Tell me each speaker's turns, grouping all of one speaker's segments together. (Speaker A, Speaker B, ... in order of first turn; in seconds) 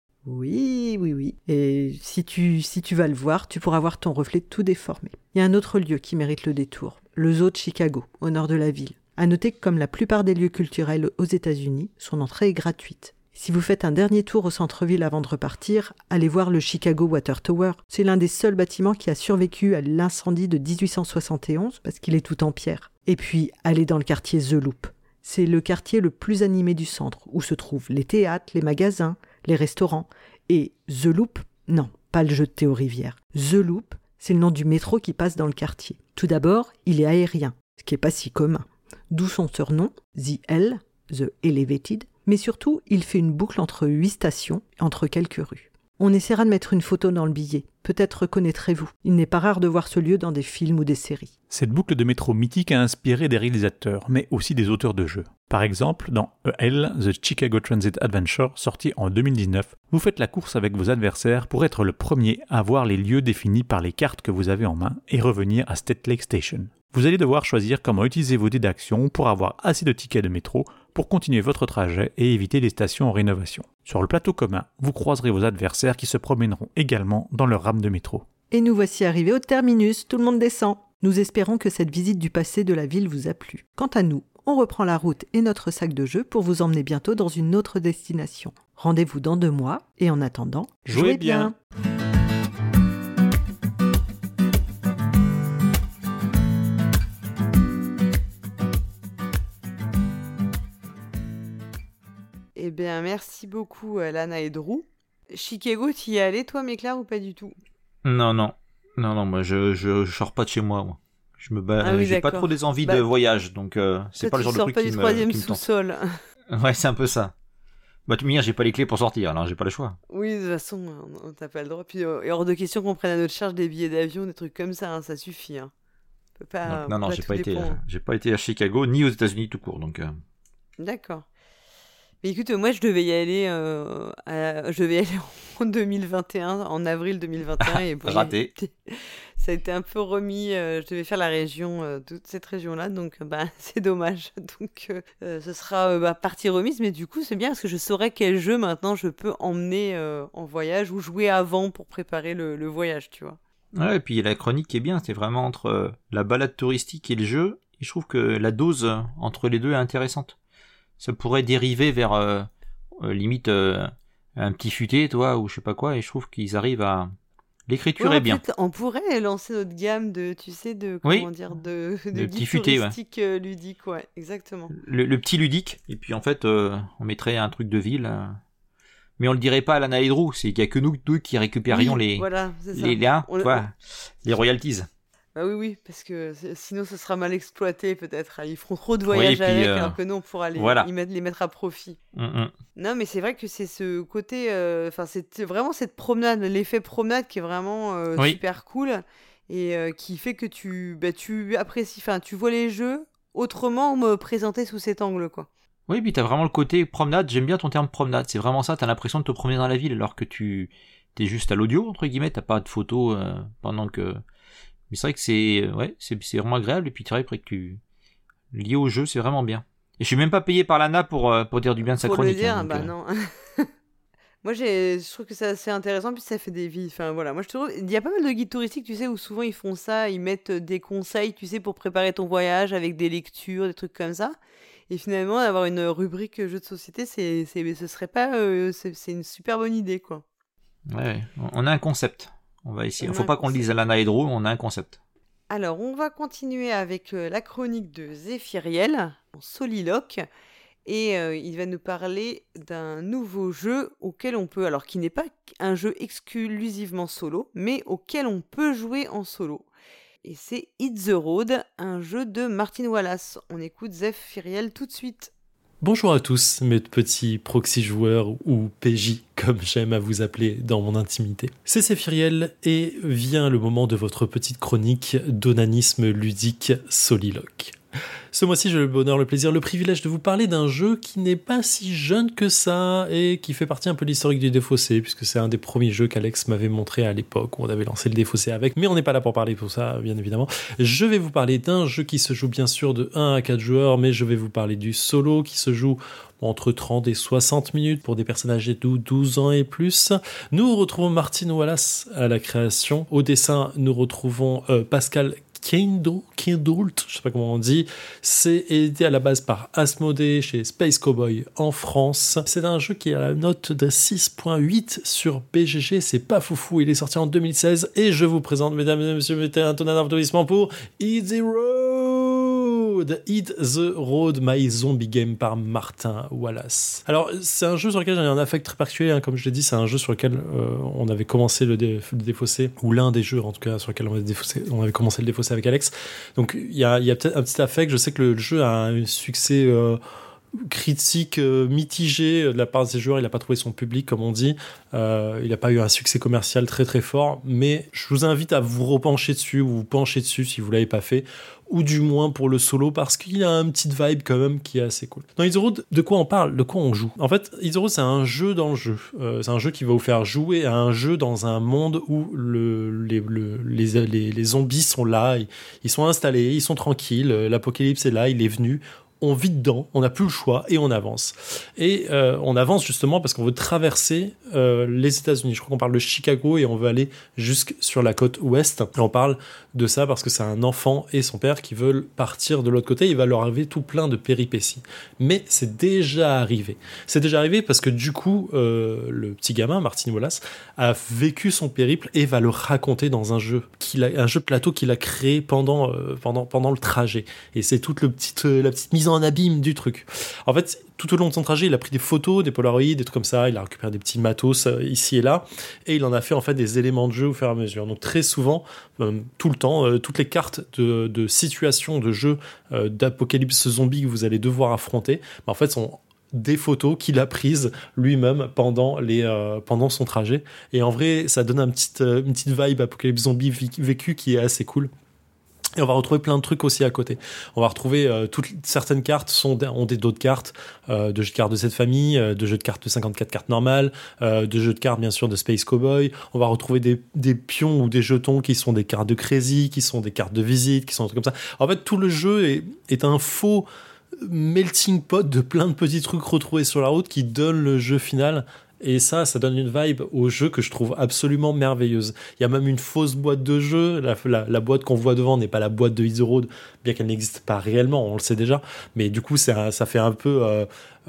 Speaker A: 0.2-51.3, 78.5-91.5
Speaker B: 51.5-78.2, 90.9-91.5
Speaker C: 102.6-107.5, 111.8-113.0, 114.2-116.1, 120.1-125.7, 126.4-127.8, 130.8-131.2, 132.2-153.4, 168.0-174.7, 181.7-183.7, 185.3-192.0, 192.8-205.5, 221.8-223.7, 224.4-234.4, 234.9-240.2, 243.0-243.7, 245.5-250.2, 250.9-259.7, 260.2-265.3
Speaker D: 108.0-115.6, 116.5-117.3, 118.1-120.0, 126.7-130.2, 137.6-138.5, 153.8-160.3, 161.0-162.5, 163.0-167.1, 167.7-168.4, 171.1-171.3, 172.1-172.9, 174.8-178.4, 179.2-184.9, 189.1-190.0, 190.6-190.9, 192.1-192.5, 205.9-214.2, 214.9-217.8, 218.5-222.9, 240.9-245.0
Speaker E: 265.8-277.8, 278.3-340.0, 340.7-424.9, 425.8-460.7